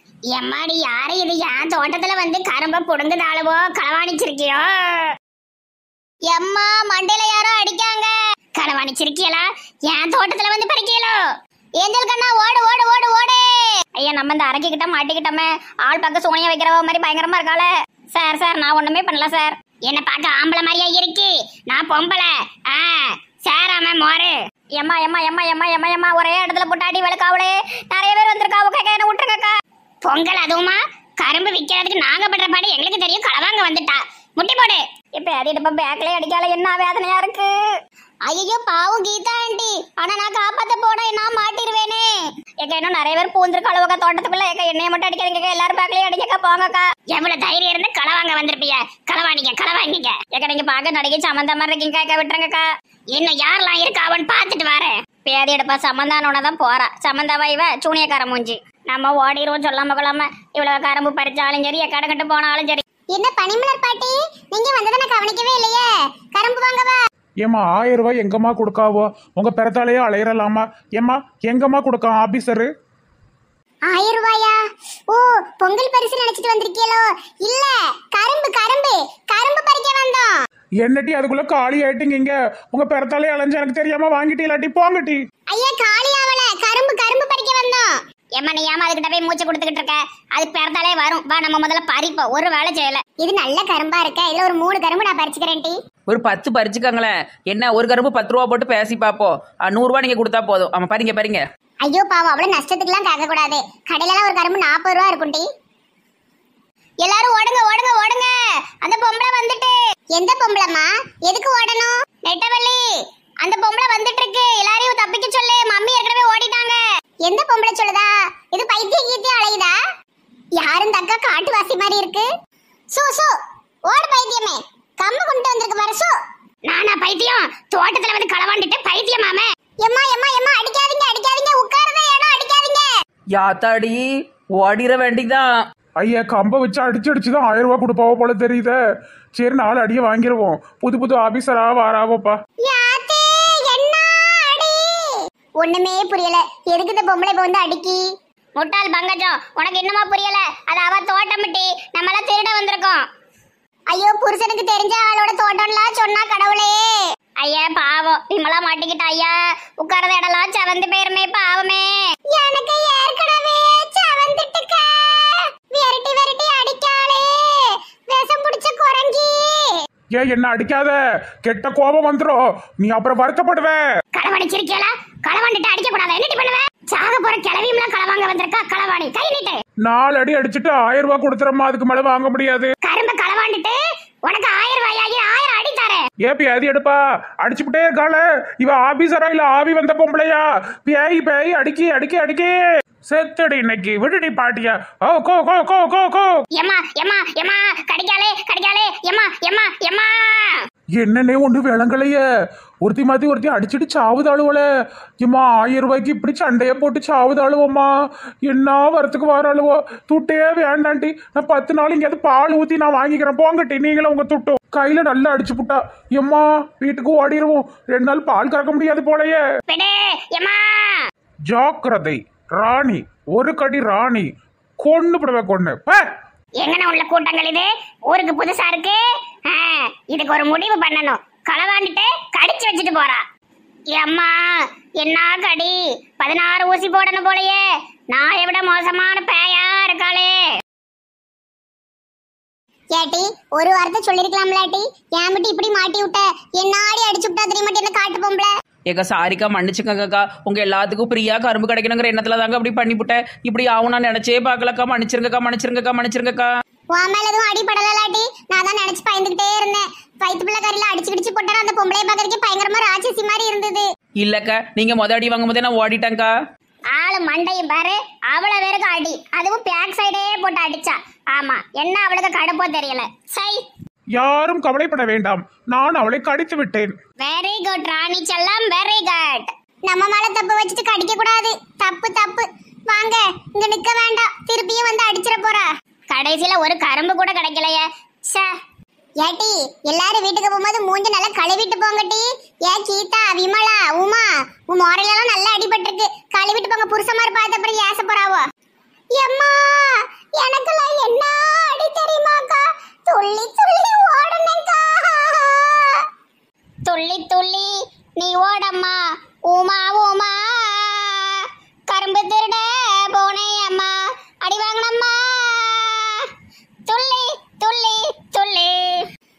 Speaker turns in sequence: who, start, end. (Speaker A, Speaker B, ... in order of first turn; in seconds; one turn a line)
Speaker A: 0.3-5.1
Speaker A: 6.3-11.2
Speaker A: 11.8-29.5
Speaker A: 30.0-37.5
Speaker A: 38.2-62.8
Speaker B: 63.1-67.0
Speaker C: 67.4-72.7
Speaker B: 73.9-74.6
Speaker B: 75.1-80.3
Speaker C: 80.8-85.2
Speaker B: 85.5-87.9
Speaker A: 88.3-93.0
Speaker B: 93.2-95.8
Speaker D: 96.1-101.4
Speaker B: 101.8-105.4
Speaker A: 107.0-109.7
Speaker B: 110.2-111.9
Speaker A: 112.2-112.9
Speaker A: 113.4-116.8
Speaker B: 117.2-119.7
Speaker B: 120.6-122.2
Speaker B: 122.9-123.3
Speaker B: 123.9-126.1
Speaker A: 126.7-129.4
Speaker B: 129.8-132.9
Speaker D: 133.3-134.0
Speaker D: 134.6-135.4
Speaker C: 136.0-138.8
Speaker C: 139.4-142.3
Speaker B: 142.7-148.0
Speaker A: 148.6-153.0
Speaker B: 153.9-156.8
Speaker A: 157.4-162.0
Speaker B: 162.3-169.7
Speaker C: 170.1-173.8
Speaker A: 174.2-179.6
Speaker C: 179.8-182.7
Speaker A: 182.8-186.0
Speaker C: 186.2-192.6
Speaker C: 193.1-196.3
Speaker A: 196.6-200.6
Speaker C: 201.0-202.2
Speaker C: 202.8-204.6
Speaker C: 205.2-207.9
Speaker C: 208.5-219.4
Speaker A: 219.7-221.0
Speaker C: 221.5-224.3
Speaker C: 224.8-226.0
Speaker A: 226.6-233.2
Speaker A: 233.9-237.6
Speaker A: 238.1-240.4
Speaker B: 242.9-248.5
Speaker D: 248.9-256.5
Speaker B: 256.9-263.8
Speaker D: 264.2-266.3
Speaker A: 266.9-273.6
Speaker C: 274.1-276.9
Speaker A: 277.2-279.5
Speaker B: 279.9-285.6
Speaker A: 286.1-288.4
Speaker B: 289.2-298.4
Speaker B: 299.2-306.0
Speaker A: 306.9-316.3
Speaker A: 316.9-319.0